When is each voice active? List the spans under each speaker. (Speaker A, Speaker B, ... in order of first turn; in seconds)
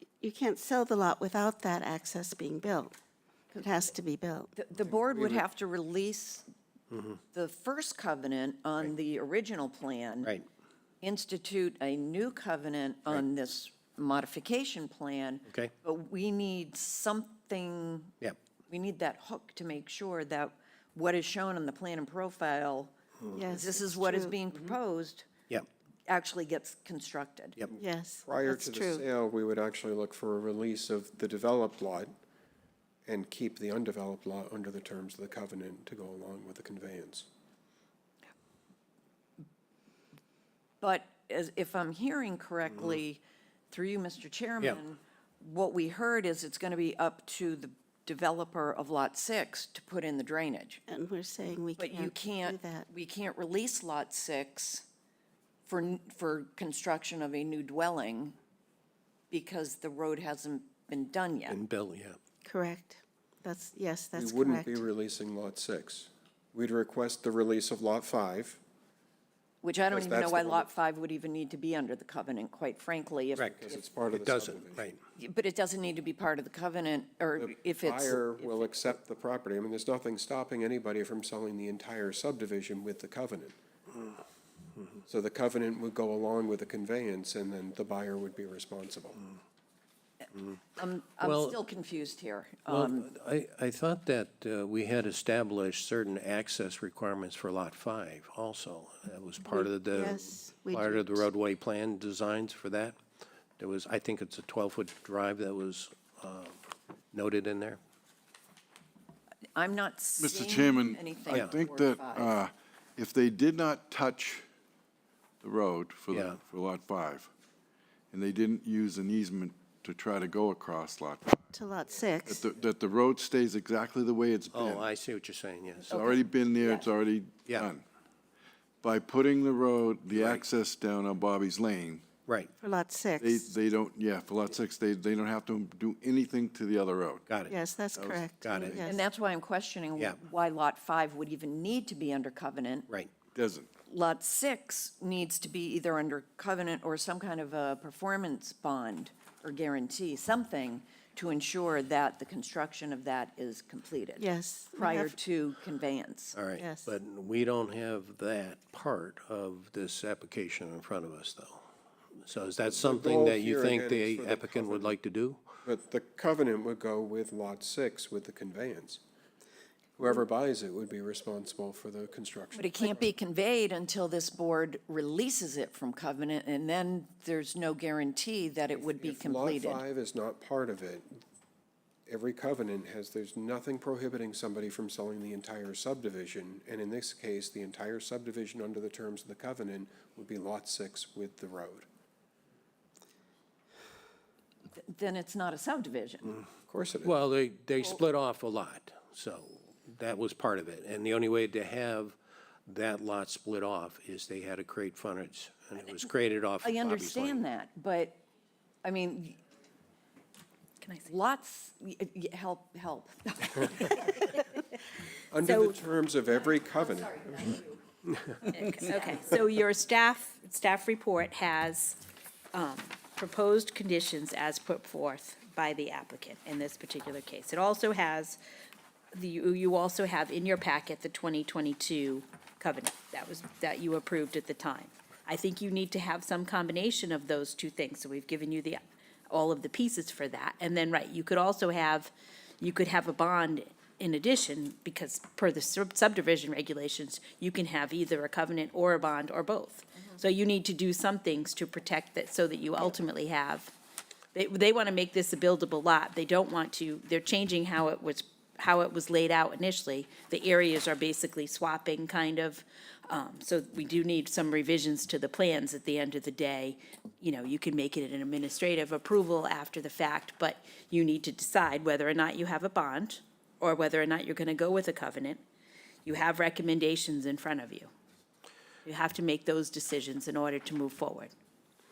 Speaker A: 0.2-3.0, 3.6-4.5, 23.3-24.3, 27.7-29.1, 50.9-52.8, 62.4-64.8, 99.5-101.2, 121.5-122.4, 132.6-133.5, 137.5-138.9, 154.2-155.2, 156.5-156.9
Speaker B: 3.5-3.9, 4.5-6.5, 7.3-10.3, 11.0-25.3, 26.1-27.6, 40.8-50.8, 51.8-54.9, 55.6-58.4, 59.3-61.6, 69.6-73.8, 75.2-78.9, 90.8-93.1, 109.5-112.4, 125.9-126.9, 138.8-142.9, 143.9-156.4, 172.5-179.8, 194.8-196.3, 206.6-208.2, 208.8-209.4, 211.1-214.3, 216.4-217.8, 218.9-219.2
Speaker C: 6.9-7.2, 15.4-15.7, 61.5-62.2, 73.4-75.0, 91.2-91.6, 92.7-103.0, 103.6-107.8, 116.1-116.4, 124.5-125.9, 130.1-130.4, 132.2-132.5, 137.3-137.6, 138.4-138.8, 156.3-161.6, 162.2-165.4, 197.0-207.4
Speaker D: 27.7-32.1, 33.0-37.3, 64.1-68.6, 69.8-70.7, 73.5-74.9, 77.4-83.5, 85.1-89.2, 162.7-165.0, 165.6-169.0, 170.0-173.1, 178.8-181.2, 182.1-191.9, 196.7-197.1, 215.3-217.5
Speaker E: 110.2-114.5, 115.4-117.3, 118.1-121.5, 122.2-124.9, 125.9-127.8, 128.8-132.0, 133.2-137.3, 137.9-138.8, 143.3-143.7
Speaker F: 210.8-211.1, 215.4-215.8, 218.4-228.4, 229.1-238.8, 239.3-253.7, 254.3-275.4, 276.0-277.9, 278.8-281.3